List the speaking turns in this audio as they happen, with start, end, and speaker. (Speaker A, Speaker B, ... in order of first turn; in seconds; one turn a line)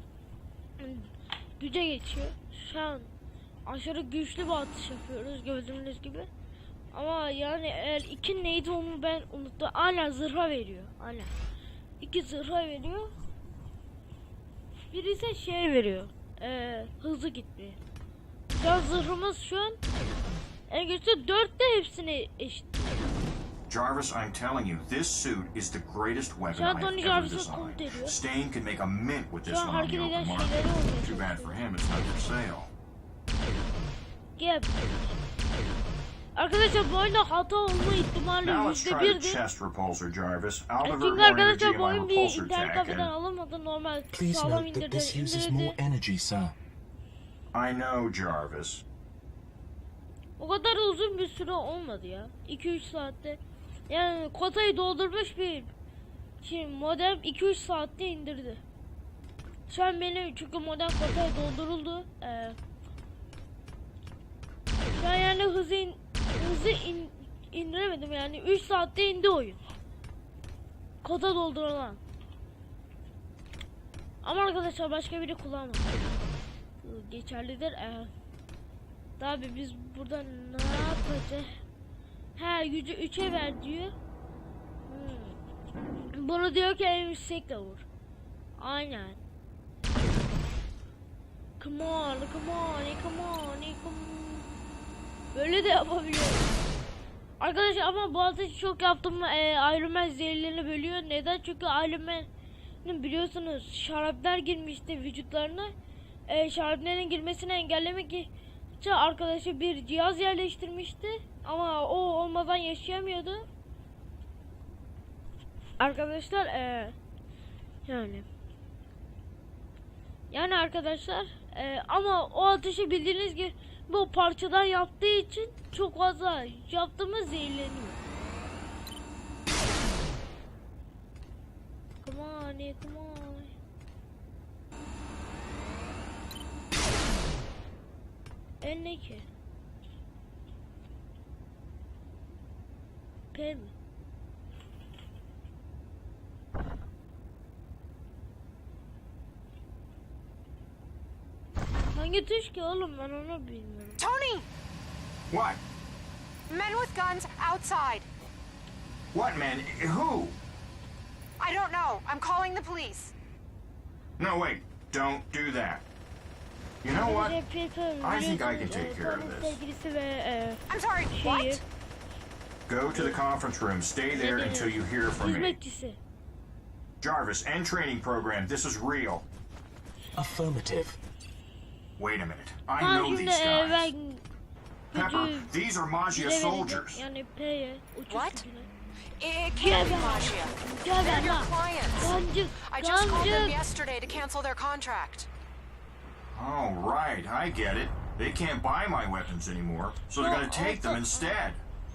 Speaker A: 0.8-3.1
Speaker A: 3.7-6.3
Speaker A: 6.9-11.3
Speaker A: 12.0-13.1
Speaker A: 14.9-17.8
Speaker A: 18.5-19.8
Speaker A: 20.7-23.0
Speaker B: 23.7-32.7
Speaker A: 26.5-28.2
Speaker A: 29.5-31.6
Speaker A: 34.4-34.7
Speaker A: 36.4-39.4
Speaker B: 38.4-43.1
Speaker A: 40.8-45.8
Speaker C: 44.1-46.6
Speaker B: 47.5-48.8
Speaker A: 50.4-55.7
Speaker A: 56.4-58.6
Speaker A: 59.7-62.6
Speaker A: 65.0-69.6
Speaker A: 71.0-72.0
Speaker A: 74.2-76.1
Speaker A: 76.8-78.1
Speaker A: 79.2-81.6
Speaker A: 82.4-83.9
Speaker A: 84.9-85.4
Speaker A: 86.1-87.8
Speaker A: 88.6-89.2
Speaker A: 91.6-94.5
Speaker A: 95.3-96.5
Speaker A: 97.4-102.3
Speaker A: 102.8-105.7
Speaker A: 106.3-113.5
Speaker A: 115.8-117.0
Speaker A: 117.9-118.3
Speaker A: 120.3-128.0
Speaker A: 132.0-133.5
Speaker A: 138.6-139.3
Speaker A: 143.3-143.7
Speaker A: 151.9-154.0
Speaker D: 154.0-154.5
Speaker B: 155.3-155.6
Speaker D: 156.5-158.1
Speaker B: 159.1-160.4
Speaker D: 161.4-163.1
Speaker B: 164.2-165.8
Speaker B: 166.8-167.4
Speaker A: 166.9-171.6
Speaker B: 168.0-169.6
Speaker D: 170.7-171.6
Speaker B: 172.7-175.6
Speaker A: 172.9-173.2
Speaker A: 174.1-176.0
Speaker B: 177.0-179.3
Speaker C: 180.2-181.0
Speaker B: 182.0-183.9
Speaker A: 182.8-184.2
Speaker A: 184.9-185.5
Speaker B: 184.9-187.1
Speaker A: 186.1-188.7
Speaker D: 188.1-188.4
Speaker D: 189.2-192.2
Speaker A: 189.6-193.6
Speaker D: 192.7-195.3
Speaker B: 196.3-201.6
Speaker A: 200.2-201.3